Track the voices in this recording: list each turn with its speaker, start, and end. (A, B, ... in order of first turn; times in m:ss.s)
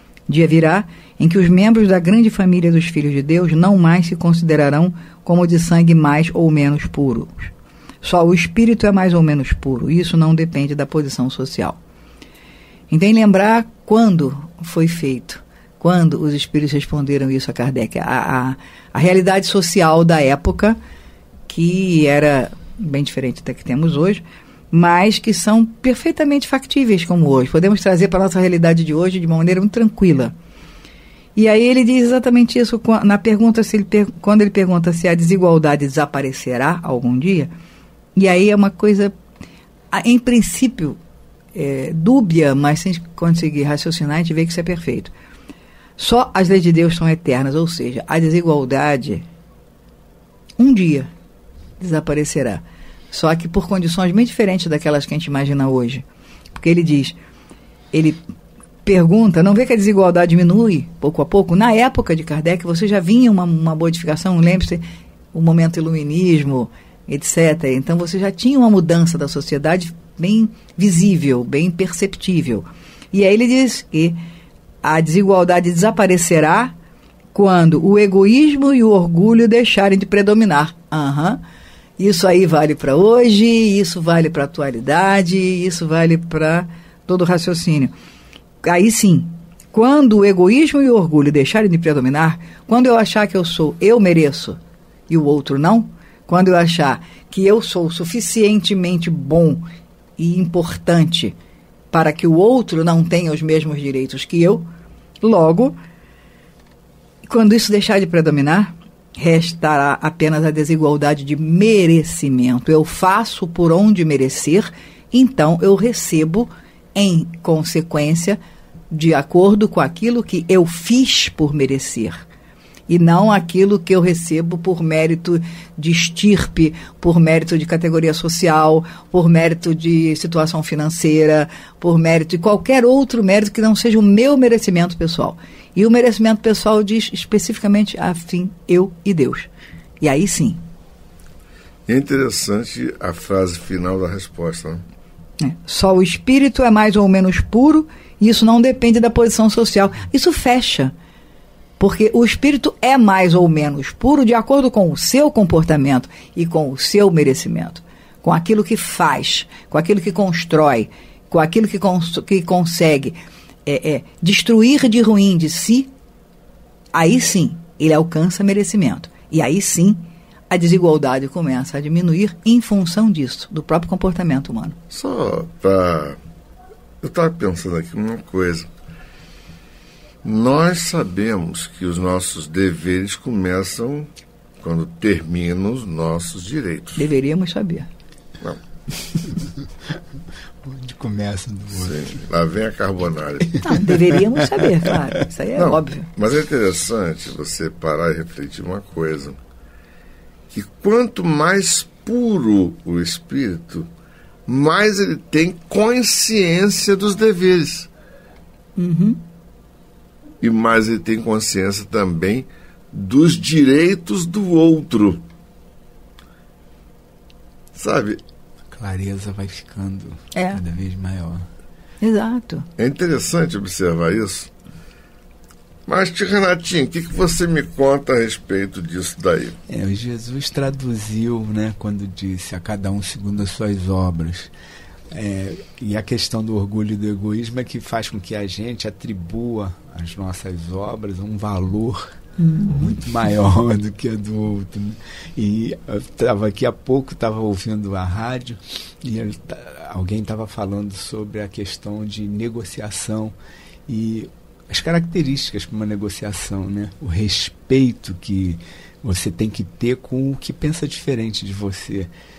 0:00.3-0:07.5 A
0:08.0-0:11.8 A
0:12.9-0:20.8 A
0:21.5-0:30.4 A
0:31.4-0:37.5 A
0:38.2-0:39.1 A
0:39.9-0:41.0 A
0:41.5-0:45.1 A
0:46.0-0:49.2 A
0:50.6-0:51.1 A
0:51.8-0:57.2 A
0:57.9-0:58.2 A
0:58.8-1:14.2 A
1:14.8-1:16.8 A
1:17.3-1:21.4 A
1:22.0-1:27.9 A
1:28.6-1:34.6 A
1:35.1-1:39.7 A
1:40.2-1:41.4 A
1:41.9-1:44.7 A
1:45.2-1:45.8 A
1:47.2-1:58.4 A
1:58.9-2:02.2 A
2:02.9-2:19.5 A
2:20.0-2:20.6 A
2:21.9-2:24.8 B
2:25.4-2:30.9 A
2:31.8-2:45.9 A
2:46.9-2:54.8 A
2:54.9-2:56.2 B
2:57.0-2:58.7 B
3:00.2-3:04.1 B
3:04.6-3:07.1 B
3:07.0-3:07.9 A
3:10.6-3:12.2 C
3:11.7-3:13.9 B
3:13.5-3:14.9 C
3:13.6-3:16.1 A
3:15.6-3:19.4 B
3:20.5-3:23.9 B
3:24.5-3:27.9 B
3:28.8-3:29.2 A
3:30.4-3:35.2 B
3:37.8-3:38.2 B
3:38.7-3:41.5 C
3:40.3-3:40.6 A
3:42.0-3:42.7 A
3:42.8-3:44.5 B
3:45.9-3:49.6 B
3:49.7-3:54.5 C
3:55.1-4:13.4 C
4:02.4-4:02.9 A
4:13.9-4:22.1 C